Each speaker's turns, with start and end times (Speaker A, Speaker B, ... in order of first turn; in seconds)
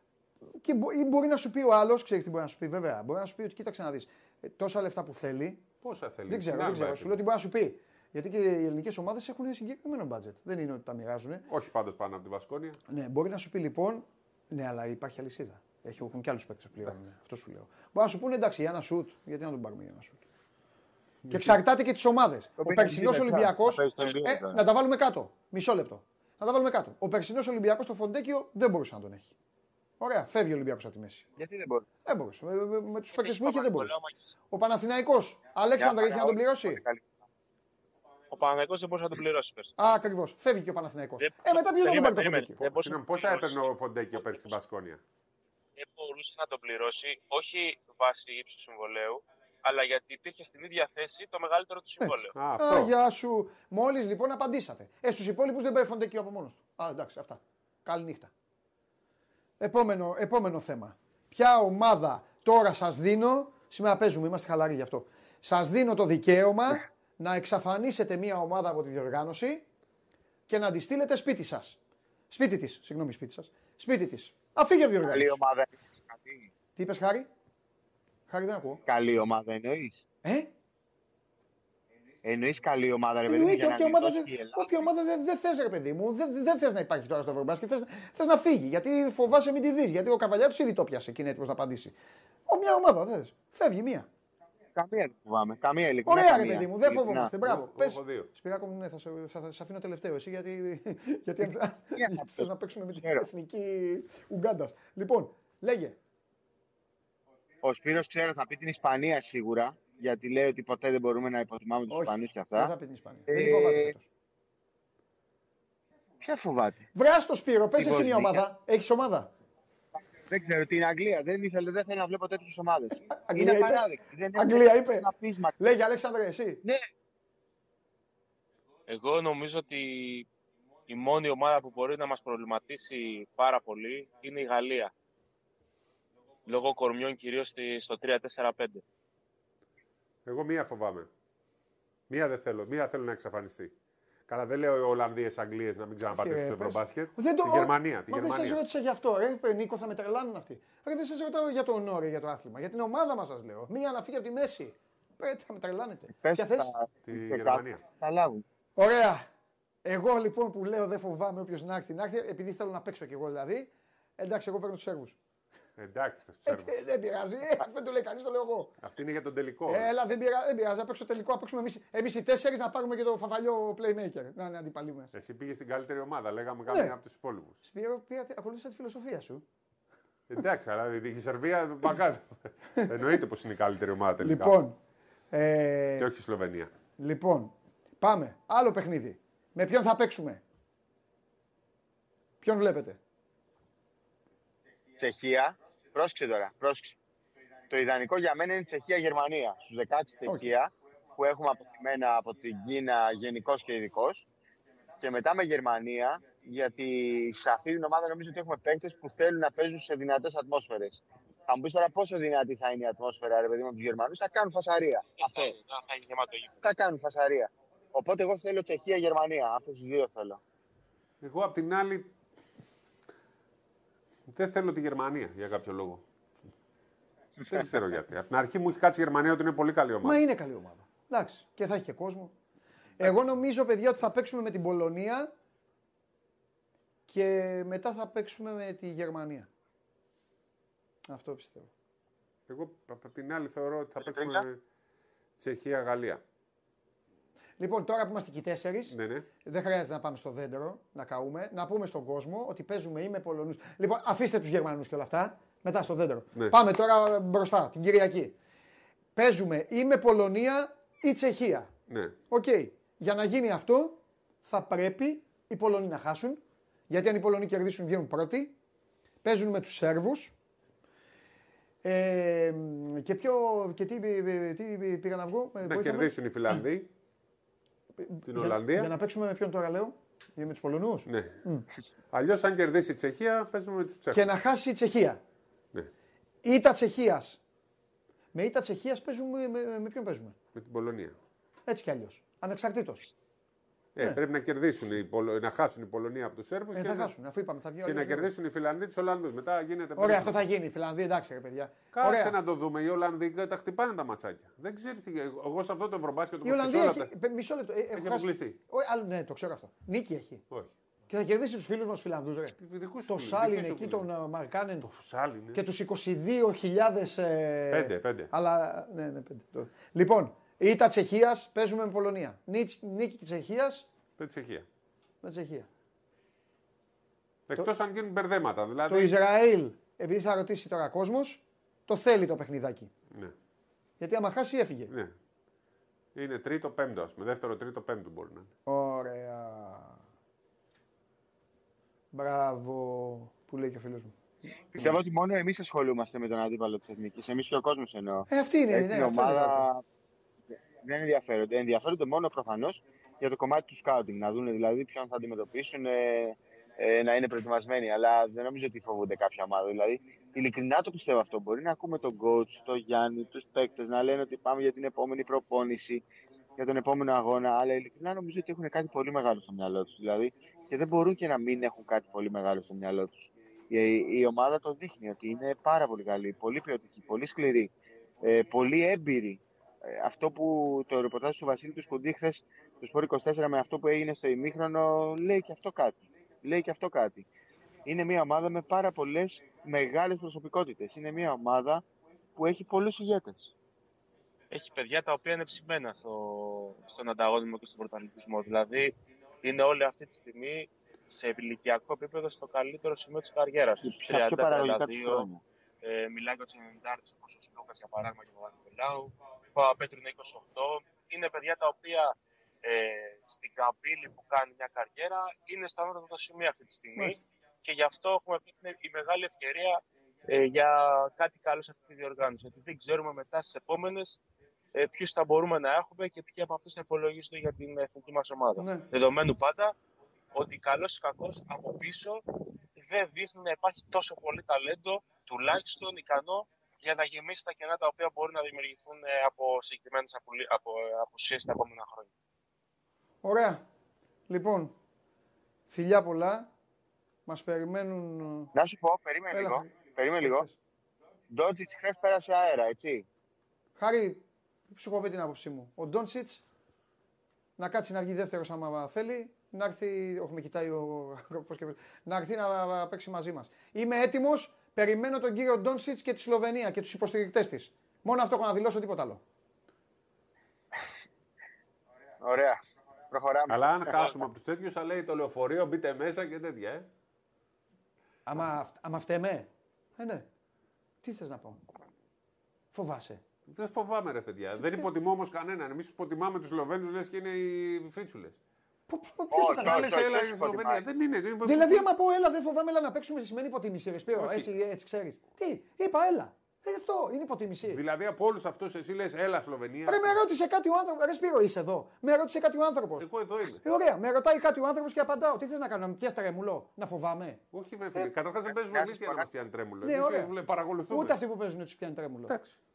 Speaker A: 0.6-5.6, 6.3-11.5, 12.9-20.2, 21.3-29.4, 30.0-31.3, 32.1-34.0, 34.5-36.8, 39.8-42.7, 52.0-58.3, 59.6-69.7, 70.5-71.8, 72.3-75.4, 76.8-77.3, 78.3-78.8, 80.2-80.5, 83.3-91.9, 92.5-94.1, 96.1-106.0, 111.9-114.1, 117.0-119.3, 123.1-126.6, 146.1-156.7, 158.8-159.3, 159.8-165.2, 166.4-168.8, 169.7-175.1, 176.7-176.9, 177.6-179.4, 184.2-184.8, 185.3-186.1, 187.0-190.4, 192.4-193.0, 200.3-200.5, 230.0-232.3, 233.0-235.3, 237.1-239.5, 241.1-241.7, 247.6-258.3, 259.2-261.7, 262.3-268.6, 269.2-270.3, 271.8-276.6, 278.0-281.7, 284.1-285.2, 286.4-287.4, 288.3-290.4, 291.7-293.1, 296.7-298.3, 300.0-302.4, 306.4-310.4, 311.1-314.9, 315.5-323.9, 325.2-325.7, 328.9-332.9, 334.0-334.9, 338.7-340.0, 342.1-344.1, 348.3-349.7, 428.6-428.9, 443.2-443.6, 444.3-444.7, 445.7-446.5, 447.3-448.5, 449.3-450.5, 453.8-456.4, 457.6-469.2, 478.3-480.3, 481.0-481.8, 482.7-483.2, 484.6-484.9, 488.9-489.9, 491.4-497.8, 499.9-503.1, 503.6-507.4, 509.8-510.3, 510.9-512.4
Speaker B: 5.8-7.2, 11.5-12.8, 42.8-45.0, 52.4-52.9, 97.5-98.3, 140.2-141.1, 142.1-143.7, 144.3-148.6, 157.1-157.8, 165.8-166.8, 168.8-169.9, 175.1-177.6, 180.3-184.6, 186.0-186.7, 221.2-222.1, 224.3-226.0, 227.4-230.2, 242.5-244.6, 245.4-246.2, 248.9-249.3, 261.9-262.2, 275.6-276.9, 278.3-278.9, 281.1-281.4, 282.1-284.3, 290.6-291.2, 293.9-297.1, 297.8-300.5, 301.9-307.1, 307.9-308.6, 312.6-314.1, 314.8-315.6, 317.7-318.3, 324.2-324.7, 327.5-329.2, 334.9-335.2, 336.1-338.5, 473.5-476.9, 483.5-488.4, 489.6-491.9, 494.1-494.5, 497.7-500.2, 503.0-503.6, 507.5-511.2, 512.3-512.6
Speaker C: 22.6-24.6, 31.4-31.9, 35.8-37.1, 75.0-76.5, 78.9-80.0, 82.2-84.8, 94.8-97.3, 102.0-103.3, 107.6-112.7, 113.3-114.0, 116.2-116.9, 117.8-118.5, 120.3-125.5, 156.2-158.4, 195.0-197.0, 197.7-204.3, 205.0-215.6, 216.6-220.4, 244.1-244.4, 344.7-349.8, 350.8-366.0, 366.6-377.7, 378.2-387.3, 387.9-391.8, 392.4-393.5, 403.8-405.4, 448.6-450.4, 451.3-453.1, 472.2-472.6, 473.1-474.2, 489.3-490.8, 508.6-509.3
Speaker D: 33.1-34.3, 38.3-39.8, 41.2-43.6, 44.2-44.5, 45.8-52.3, 128.9-130.3, 130.9-134.9, 136.5-138.8, 215.2-216.7, 394.5-405.3, 405.8-424.2, 424.7-429.8, 430.3-442.1